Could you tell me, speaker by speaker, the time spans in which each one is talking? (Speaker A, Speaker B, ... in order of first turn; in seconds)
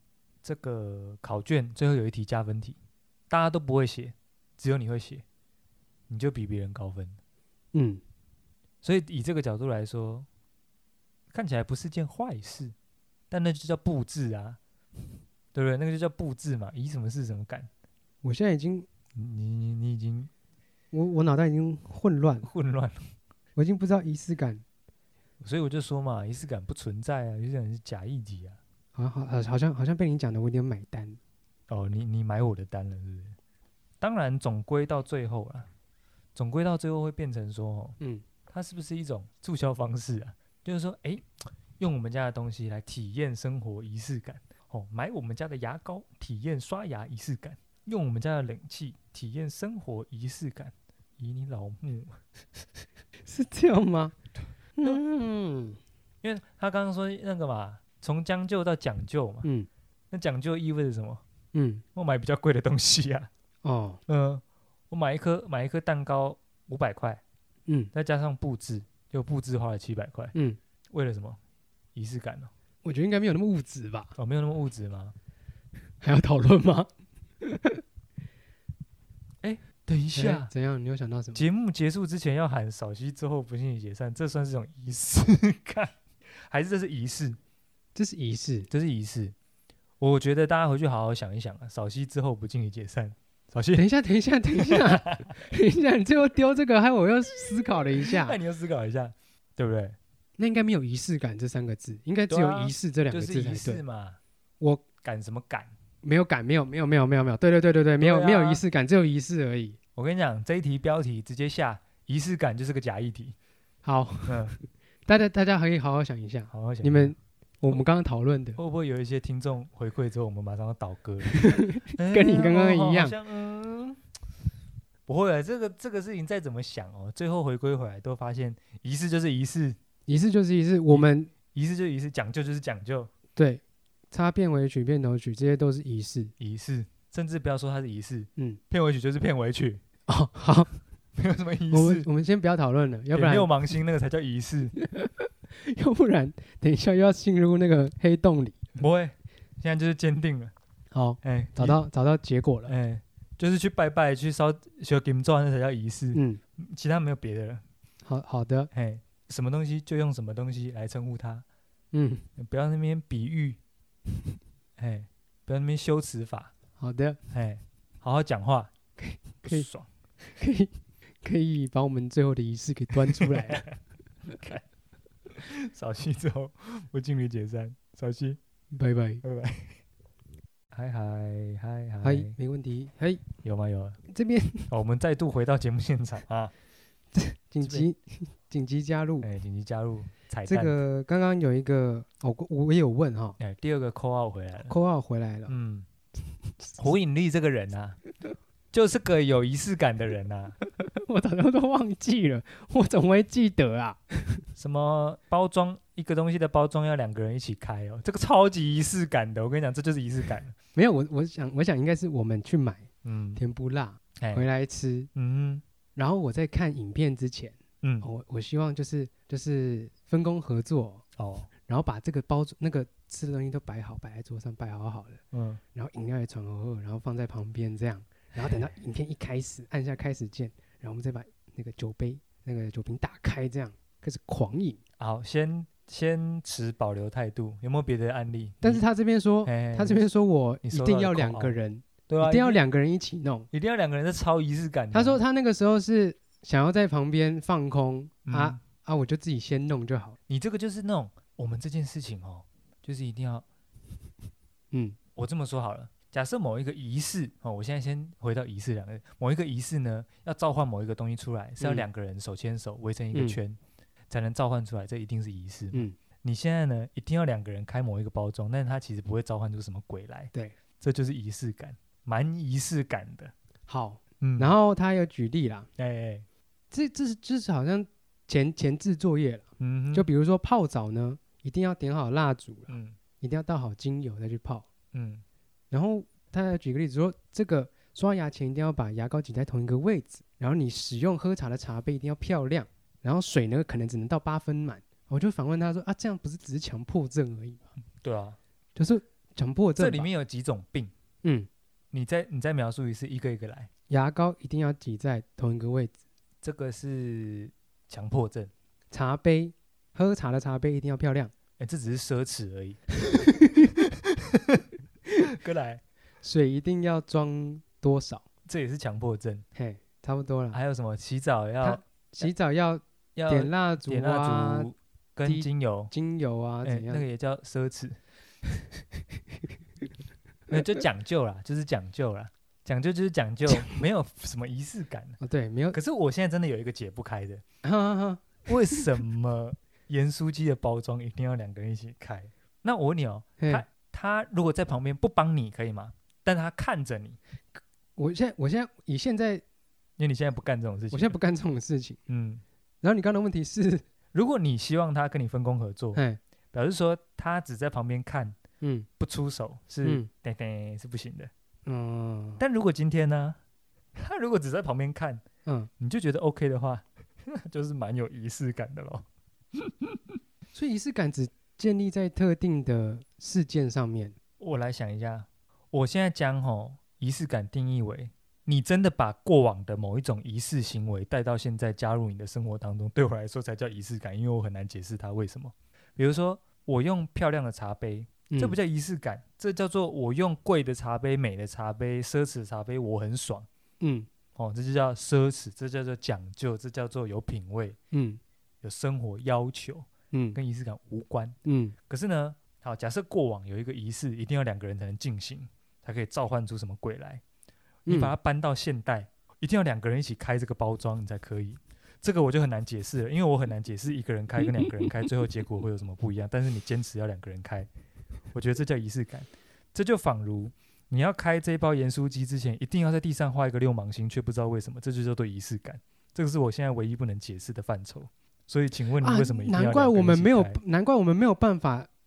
Speaker A: 0.4-2.8, 3.3-5.2, 6.1-7.2, 8.8-10.3, 11.3-12.7, 13.3-14.6, 15.5-17.7, 19.1-20.3, 22.4-23.1, 25.4-28.6, 31.7-33.4, 34.0-35.7, 36.3-38.0, 38.5-41.3, 41.8-52.6, 56.2-59.5, 60.1-61.2, 61.9-63.3, 64.1-67.2, 67.9-70.3, 70.9-71.4, 71.9-72.5, 74.2-75.1, 79.4-80.5, 81.3-87.4, 88.7-89.3, 90.0-93.8, 94.6-95.3, 98.0-100.0, 102.3-104.2, 105.0-105.7, 108.0-108.6, 110.0-113.3, 114.3-114.5, 116.5-117.2, 118.6-124.0, 125.1-129.8, 130.9-133.1, 136.4-139.8, 141.2-142.1, 143.1-144.7, 148.8-150.5, 151.2-151.8, 152.7-157.6, 158.7-161.4, 162.4-163.6, 164.8-166.5, 167.3-168.7, 169.4-169.9, 173.1-173.8, 174.3-174.6, 175.3-178.4, 179.2-179.8, 180.7-182.3, 183.4-184.0, 184.7-186.5, 187.6-187.9, 189.2-190.8, 193.4-194.7, 195.5-195.9, 196.8-198.0, 198.7-200.5, 204.6-210.5, 213.0-213.4, 214.2-214.4, 215.1-215.6, 217.8-218.1, 221.2-221.5, 225.3-225.6, 235.0-238.8, 239.4-240.0, 240.6-241.6, 242.1-242.6, 243.5-245.2, 248.2-248.6, 250.3-253.4, 255.2-263.6, 264.1-273.3, 274.2-274.6, 275.8-276.2, 279.6-280.1, 282.7-283.0, 284.9-285.2, 298.0-298.4, 299.8-300.9, 301.9-303.7, 306.4-308.5, 311.6-314.6, 315.2-315.8, 318.5-319.4, 320.5-322.3, 323.1-325.9, 326.6-328.0, 330.5-335.2, 335.7-337.4, 338.4-347.2, 350.0-351.1, 352.1-352.4, 354.1-356.0, 356.5-358.4, 359.0-361.3, 362.4-363.4, 363.9-365.2, 365.8-370.1, 374.4-393.5, 394.4-397.8, 398.6-401.4, 401.9-407.2, 407.9-417.7, 418.3-430.6
Speaker B: 7.7-8.0, 18.2-18.9, 20.9-22.5, 23.6-24.6, 28.9-31.2, 53.2-54.1, 54.8-55.8, 59.4-59.7, 61.5-61.8, 63.6-64.0, 72.8-74.1, 76.0-76.9, 77.4-77.8, 80.1-81.4, 87.9-88.7, 93.8-98.4, 100.4-103.8, 104.6-104.8, 106.0-109.8, 113.8-118.6, 121.3-123.1, 130.1-131.3, 133.3-136.3, 140.1-140.8, 141.7-143.5, 144.8-148.6, 150.9-152.7, 156.1-156.4, 158.0-158.7, 161.9-162.2, 166.8-167.2, 169.0-169.7, 170.3-173.7, 178.7-179.2, 182.0-183.2, 184.1-184.7, 187.1-189.3, 190.4-193.4, 194.6-195.5, 200.8-204.4, 210.7-215.1, 215.9-221.0, 221.7-225.2, 225.7-234.8, 238.6-243.5, 244.9-250.2, 254.7-255.0, 261.6-261.8, 263.1-263.4, 273.7-275.7, 276.7-284.7, 285.7-297.7, 298.8-300.1, 301.2-301.5, 303.9-305.9, 308.9-311.3, 316.2-318.2, 319.5-320.6, 321.6-324.7, 325.2-327.0, 335.2-335.8, 337.6-338.4, 343.4-343.6, 347.9-349.4, 350.9-352.0, 352.8-353.8, 358.6-358.9, 359.8-360.1, 361.6-362.4, 370.5-374.1, 388.3-388.6, 393.8-394.1, 397.9-398.2, 400.1-400.4, 401.4-401.8, 407.9-408.1, 429.0-431.9